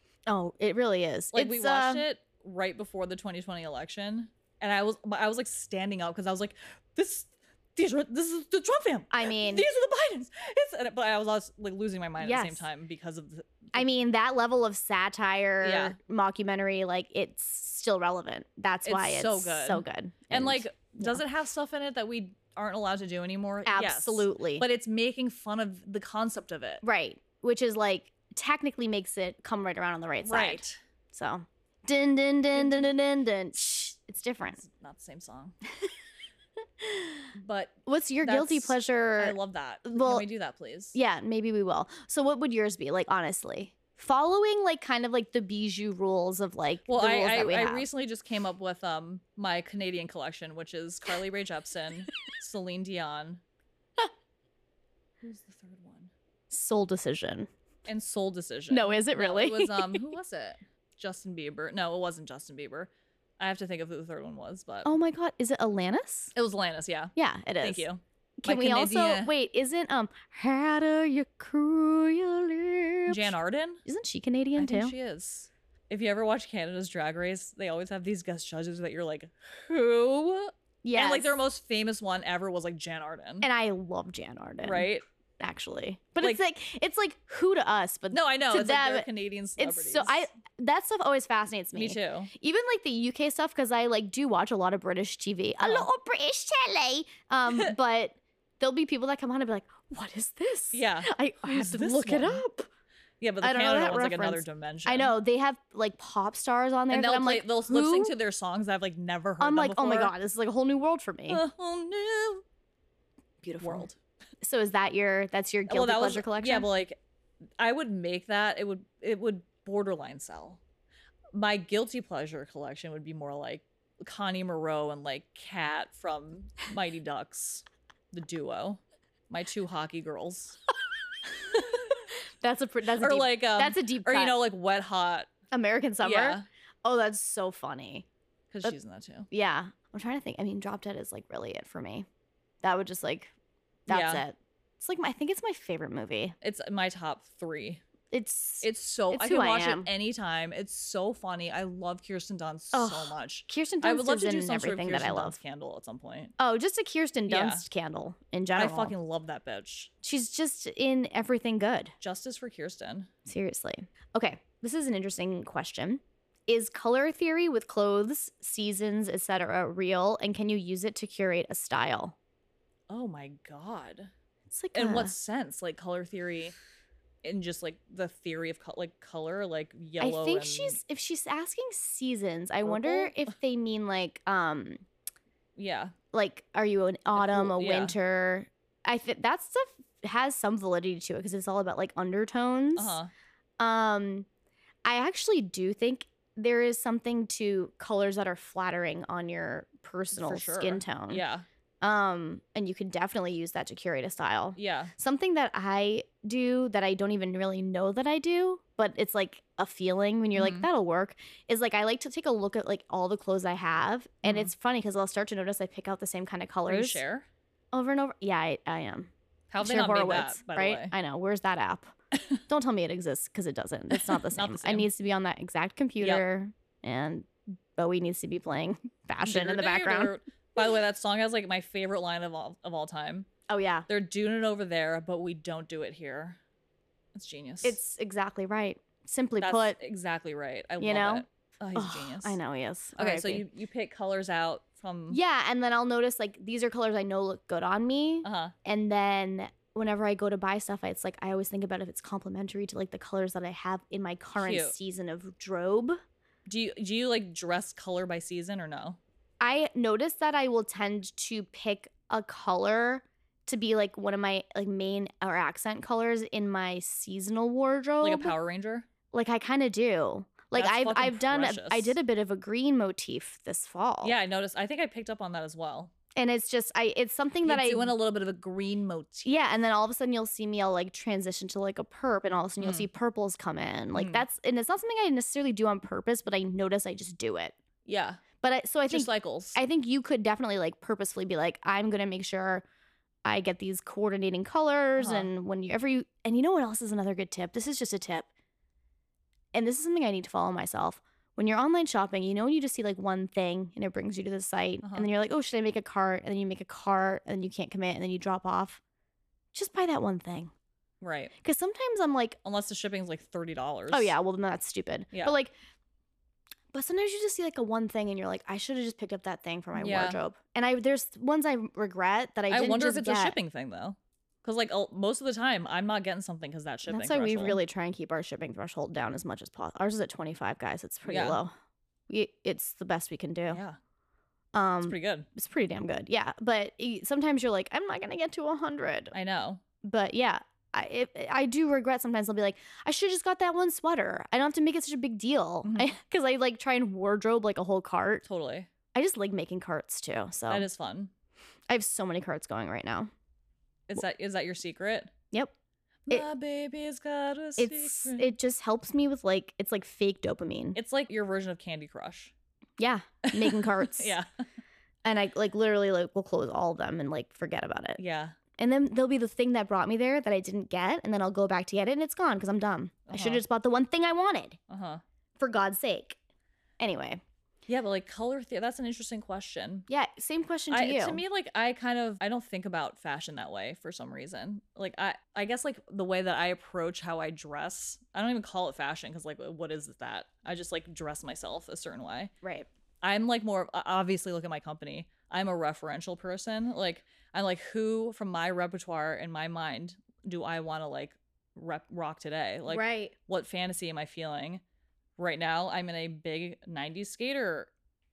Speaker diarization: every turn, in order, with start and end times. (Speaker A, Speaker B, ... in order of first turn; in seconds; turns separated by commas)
Speaker A: 0.3-2.0, Speaker B: 1.3-13.8, Speaker A: 9.1-9.7, Speaker A: 12.2-12.7, Speaker A: 13.7-21.2, Speaker B: 15.6-16.0, Speaker B: 18.8-26.8, Speaker A: 23.6-24.6, Speaker A: 26.8-34.6, Speaker B: 30.2-30.8, Speaker B: 32.5-32.9, Speaker B: 34.6-35.5, Speaker A: 36.8-37.3, Speaker B: 37.3-41.0, Speaker A: 37.9-40.2, Speaker A: 40.9-47.9, Speaker B: 46.9-53.4, Speaker B: 55.2-56.1, Speaker A: 56.5-57.5, Speaker B: 57.9-64.9, Speaker A: 58.7-60.1, Speaker A: 64.8-66.3, Speaker B: 66.3-69.3, Speaker A: 67.2-67.8, Speaker A: 68.4-73.3, Speaker B: 73.1-73.8, Speaker A: 73.8-74.9, Speaker B: 74.6-83.5, Speaker A: 80.8-81.4, Speaker A: 83.4-102.7, Speaker B: 84.6-85.0, Speaker B: 88.1-90.3, Speaker B: 91.7-92.3, Speaker B: 95.6-95.9, Speaker B: 100.7-102.4, Speaker B: 103.2-105.1, Speaker A: 103.4-108.1, Speaker B: 106.9-110.1, Speaker A: 109.4-111.4, Speaker B: 111.3-112.4, Speaker A: 113.4-113.9, Speaker B: 113.6-114.0, Speaker A: 114.4-116.7, Speaker B: 115.7-117.0, Speaker B: 117.6-120.6, Speaker B: 121.3-130.6, Speaker B: 131.4-131.9, Speaker A: 132.4-134.4, Speaker B: 133.0-135.3, Speaker A: 135.5-138.1, Speaker B: 136.0-136.4, Speaker B: 138.5-139.3, Speaker A: 139.3-142.1, Speaker A: 142.6-143.3, Speaker A: 143.9-146.3, Speaker B: 143.9-144.2, Speaker B: 146.4-147.8, Speaker A: 148.1-149.9, Speaker B: 148.6-156.3, Speaker A: 152.7-155.4, Speaker A: 156.4-158.9, Speaker B: 157.3-157.7, Speaker B: 158.6-159.9, Speaker A: 160.0-161.9, Speaker B: 162.0-163.1, Speaker A: 163.2-172.1, Speaker B: 172.9-174.1, Speaker A: 174.5-175.1, Speaker B: 174.7-176.5, Speaker B: 177.2-180.8, Speaker A: 180.0-184.8, Speaker B: 182.6-183.3, Speaker B: 185.6-185.9, Speaker A: 186.1-193.0, Speaker B: 187.1-187.9, Speaker B: 192.8-193.1, Speaker A: 193.6-194.3, Speaker A: 194.8-201.2, Speaker B: 200.1-201.4, Speaker A: 201.8-217.0, Speaker B: 204.6-204.9, Speaker B: 210.3-210.7, Speaker B: 214.2-214.5, Speaker B: 216.7-217.3, Speaker A: 217.7-221.9, Speaker B: 219.5-220.9, Speaker A: 222.5-230.2, Speaker B: 223.9-224.9, Speaker B: 229.2-233.3, Speaker A: 233.5-233.9, Speaker B: 233.9-236.4, Speaker B: 237.1-237.8, Speaker A: 237.6-239.8, Speaker B: 239.4-242.4, Speaker A: 240.8-243.4, Speaker B: 243.0-245.2, Speaker A: 245.1-256.0, Speaker B: 248.2-248.5, Speaker B: 254.4-254.7, Speaker B: 256.4-259.0, Speaker A: 259.4-268.3, Speaker B: 268.0-268.9, Speaker A: 269.1-274.1, Speaker B: 270.5-271.9, Speaker B: 274.0-275.9, Speaker A: 276.1-277.9, Speaker B: 277.4-279.4, Speaker A: 279.2-287.5, Speaker B: 282.6-282.9, Speaker B: 283.9-284.2, Speaker B: 287.9-288.2, Speaker A: 288.4-292.6, Speaker B: 288.9-289.6, Speaker A: 293.2-298.3, Speaker B: 295.0-295.3, Speaker A: 299.5-308.8, Speaker B: 304.8-305.1, Speaker A: 309.5-310.5, Speaker B: 311.0-311.3, Speaker A: 311.4-312.4, Speaker B: 312.4-314.1, Speaker A: 313.9-315.5, Speaker A: 316.7-323.4, Speaker B: 319.8-320.2, Speaker B: 322.5-327.6, Speaker A: 326.9-331.5, Speaker B: 331.1-331.4, Speaker A: 332.1-333.6, Speaker B: 333.5-333.8, Speaker A: 334.5-339.1, Speaker B: 334.8-335.3, Speaker B: 339.1-339.6, Speaker A: 339.8-348.2, Speaker B: 345.6-345.9, Speaker B: 348.2-348.7, Speaker A: 348.9-350.7, Speaker B: 350.5-351.1, Speaker A: 351.7-353.1, Speaker B: 353.9-355.1, Speaker B: 356.1-358.3, Speaker A: 357.6-360.8, Speaker B: 360.7-362.3, Speaker A: 362.8-364.1, Speaker B: 363.2-364.3, Speaker A: 365.0-368.0, Speaker B: 368.0-368.4, Speaker A: 368.6-374.6, Speaker B: 373.1-373.4, Speaker B: 374.7-375.0, Speaker A: 375.4-376.2, Speaker A: 376.8-377.2, Speaker B: 377.7-379.9, Speaker A: 379.9-381.2, Speaker B: 380.7-392.3, Speaker A: 392.4-392.7, Speaker B: 393.0-404.6, Speaker A: 402.7-403.1, Speaker B: 405.2-407.7